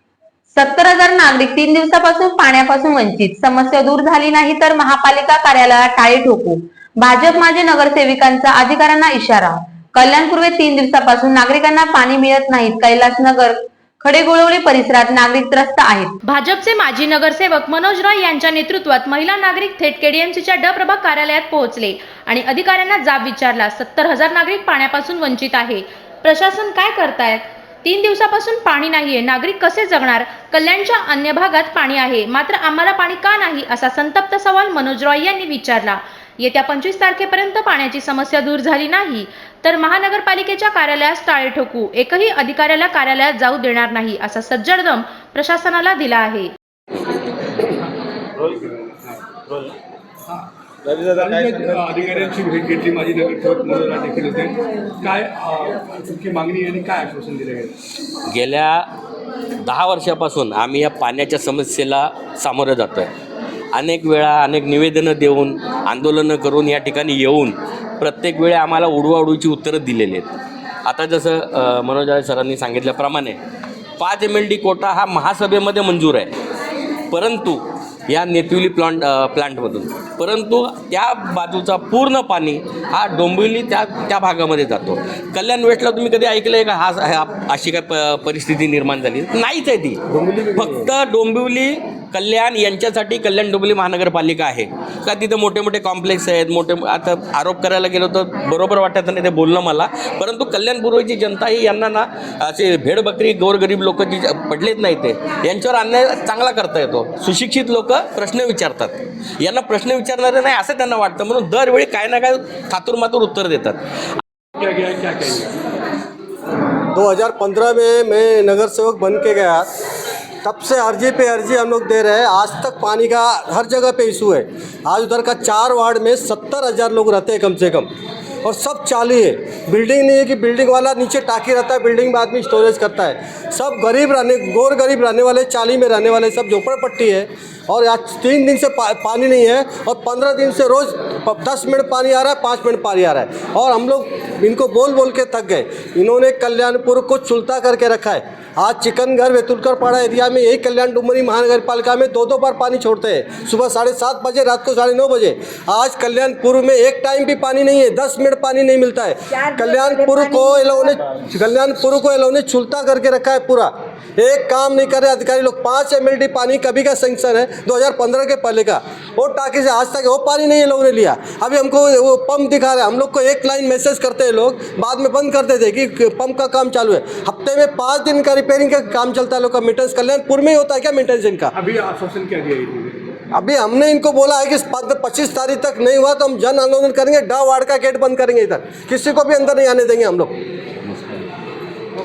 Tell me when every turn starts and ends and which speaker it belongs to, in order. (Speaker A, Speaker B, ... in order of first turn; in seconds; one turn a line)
Speaker A: 0.5-16.2
Speaker B: 16.3-46.5
Speaker C: 48.4-49.3
Speaker C: 50.3-57.8
Speaker D: 58.2-58.9
Speaker D: 59.6-63.1
Speaker D: 63.7-70.3
Speaker D: 70.8-73.4
Speaker D: 74.0-76.3
Speaker D: 77.1-113.8
Speaker E: 90.1-90.9
Speaker C: 114.5-115.5
Speaker E: 116.9-119.7
Speaker E: 120.4-127.9
Speaker E: 128.4-181.5
Speaker C: 181.5-183.2
Speaker E: 183.3-190.3